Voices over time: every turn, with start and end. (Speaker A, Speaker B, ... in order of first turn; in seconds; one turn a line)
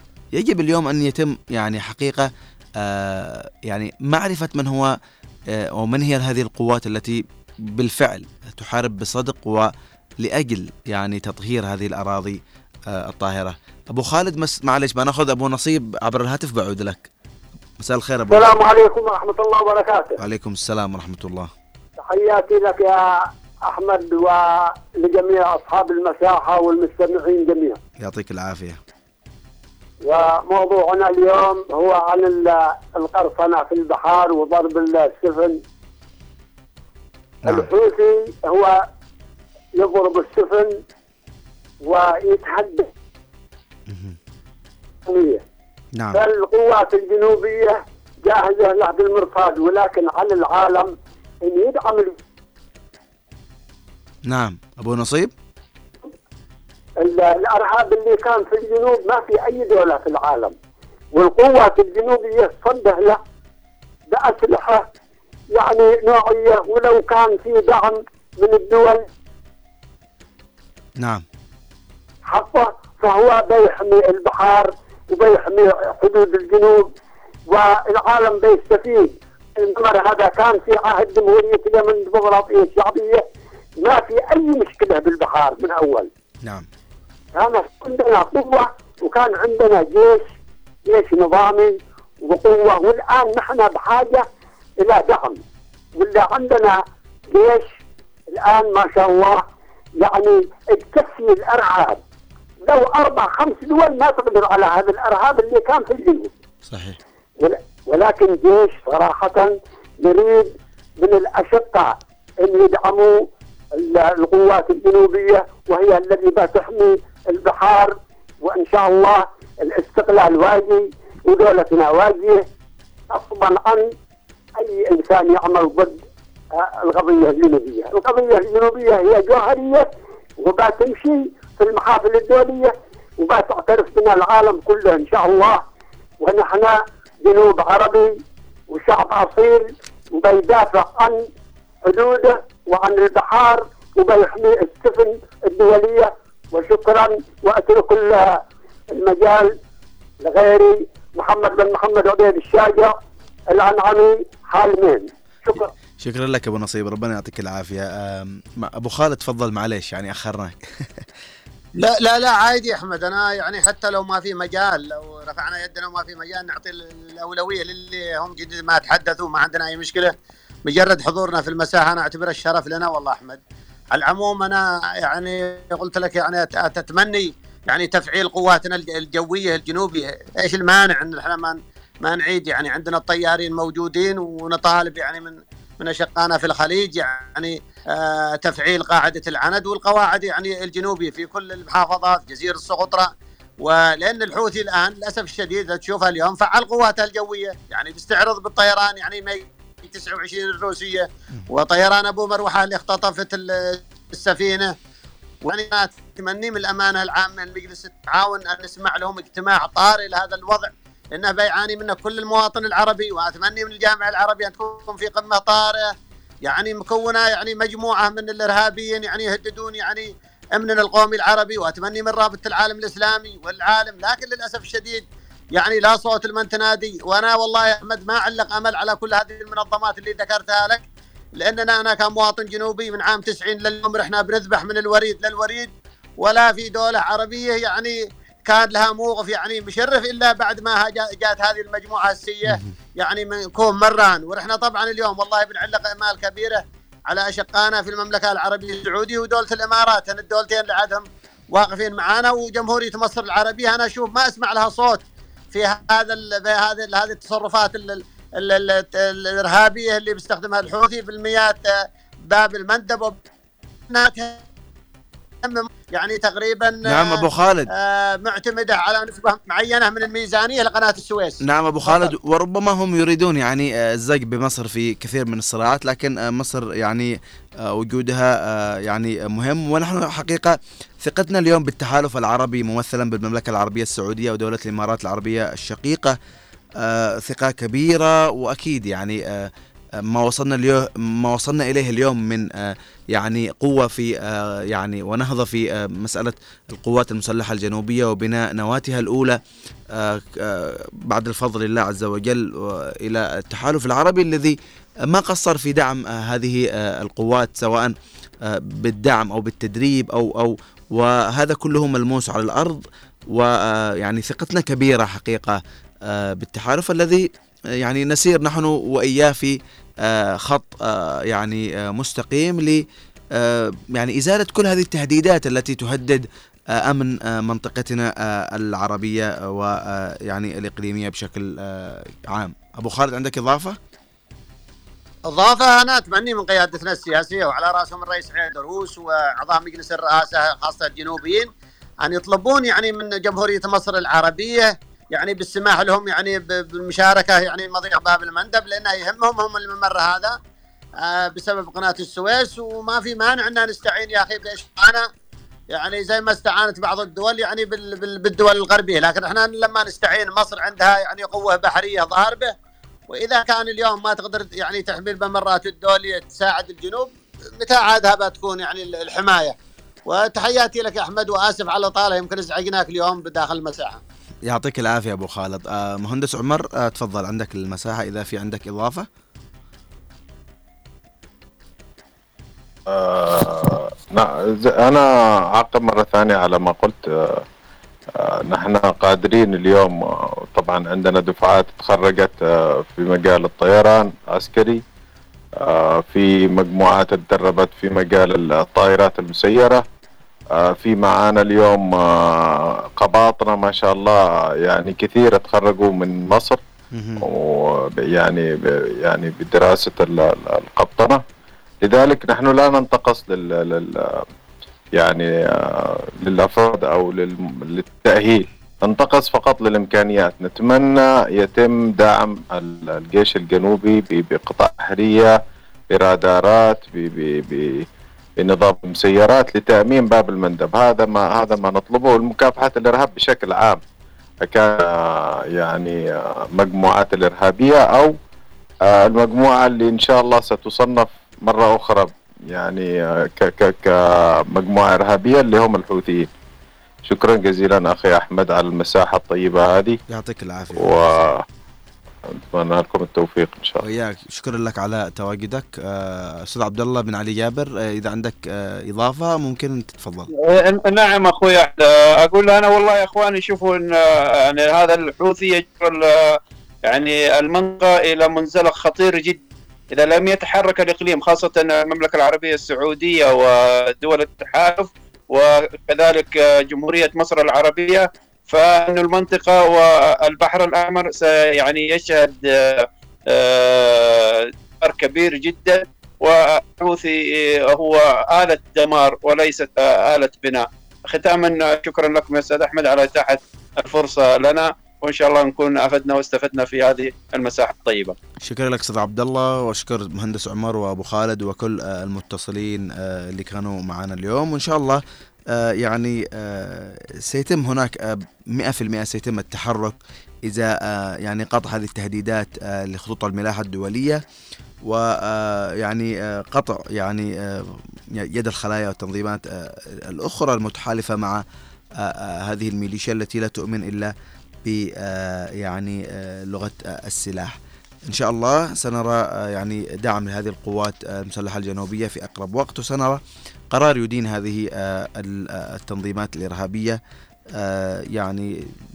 Speaker A: 0.3-2.3
Speaker A: 2.8-4.9
Speaker A: 5.6-7.2
Speaker A: 7.7-12.4
Speaker A: 12.9-17.1
Speaker A: 17.8-18.6
Speaker B: 18.3-20.2
Speaker A: 20.2-21.5
Speaker B: 22.0-23.0
Speaker B: 23.6-27.8
Speaker A: 28.0-28.8
Speaker B: 30.0-35.6
Speaker A: 37.4-37.7
Speaker B: 37.5-38.8
Speaker B: 39.7-40.8
Speaker B: 41.8-42.9
Speaker A: 43.9-44.2
Speaker B: 45.0-45.4
Speaker A: 46.0-46.2
Speaker B: 46.1-52.2
Speaker A: 54.3-55.3
Speaker B: 57.0-60.5
Speaker B: 61.1-63.2
Speaker B: 64.1-64.8
Speaker B: 65.5-69.1
Speaker B: 72.2-76.8
Speaker B: 77.5-83.2
Speaker B: 83.8-86.1
Speaker B: 87.3-90.2
Speaker B: 90.8-94.3
Speaker B: 94.8-95.4
Speaker B: 95.9-96.8
Speaker B: 97.3-97.7
Speaker B: 98.3-99.4
Speaker B: 100.0-102.0
Speaker B: 102.6-106.3
Speaker A: 106.7-107.0
Speaker B: 107.4-113.2
Speaker B: 113.7-122.4
Speaker B: 123.1-123.9
Speaker B: 124.6-126.0
Speaker B: 126.5-129.9
Speaker B: 130.4-135.6
Speaker B: 136.2-141.2
Speaker B: 141.8-149.5
Speaker B: 150.2-152.9
Speaker B: 153.5-155.7
Speaker A: 156.0-161.0
Speaker C: 161.8-170.1
Speaker C: 170.7-173.4
Speaker C: 173.9-193.1
Speaker C: 193.6-204.7
Speaker C: 205.4-215.9
Speaker C: 216.4-230.8
Speaker C: 231.4-263.2
Speaker C: 263.9-264.4
Speaker C: 265.4-272.1
Speaker A: 266.8-267.7
Speaker A: 271.4-277.1
Speaker A: 277.6-286.1
Speaker A: 286.8-289.5
Speaker A: 290.1-299.4
Speaker A: 299.9-304.6
Speaker A: 305.1-312.8
Speaker A: 313.3-317.3
Speaker A: 317.8-322.8
Speaker A: 323.4-326.2
Speaker A: 326.8-333.8
Speaker C: 335.3-341.5
Speaker C: 342.0-350.4
Speaker C: 351.0-355.1
Speaker C: 355.7-362.5
Speaker C: 363.1-369.5
Speaker C: 370.1-374.0
Speaker A: 374.5-379.1
Speaker D: 382.9-387.4
Speaker D: 388.1-394.8
Speaker D: 395.6-399.8
Speaker D: 400.5-406.6
Speaker A: 406.9-407.2
Speaker D: 407.2-408.5
Speaker D: 409.0-411.2
Speaker D: 411.8-414.2
Speaker D: 415.0-425.4
Speaker D: 425.9-427.8
Speaker D: 428.4-433.8
Speaker D: 434.4-438.1
Speaker D: 438.9-446.3
Speaker D: 447.1-450.0
Speaker A: 450.1-451.0
Speaker D: 450.8-451.4
Speaker D: 452.4-453.8
Speaker A: 453.8-460.3
Speaker E: 460.3-498.1
Speaker A: 498.4-505.0
Speaker A: 505.5-514.2
Speaker A: 514.9-521.4
Speaker A: 522.0-524.1
Speaker A: 524.6-527.5
Speaker A: 528.1-533.2
Speaker A: 533.7-537.0
Speaker A: 537.6-538.5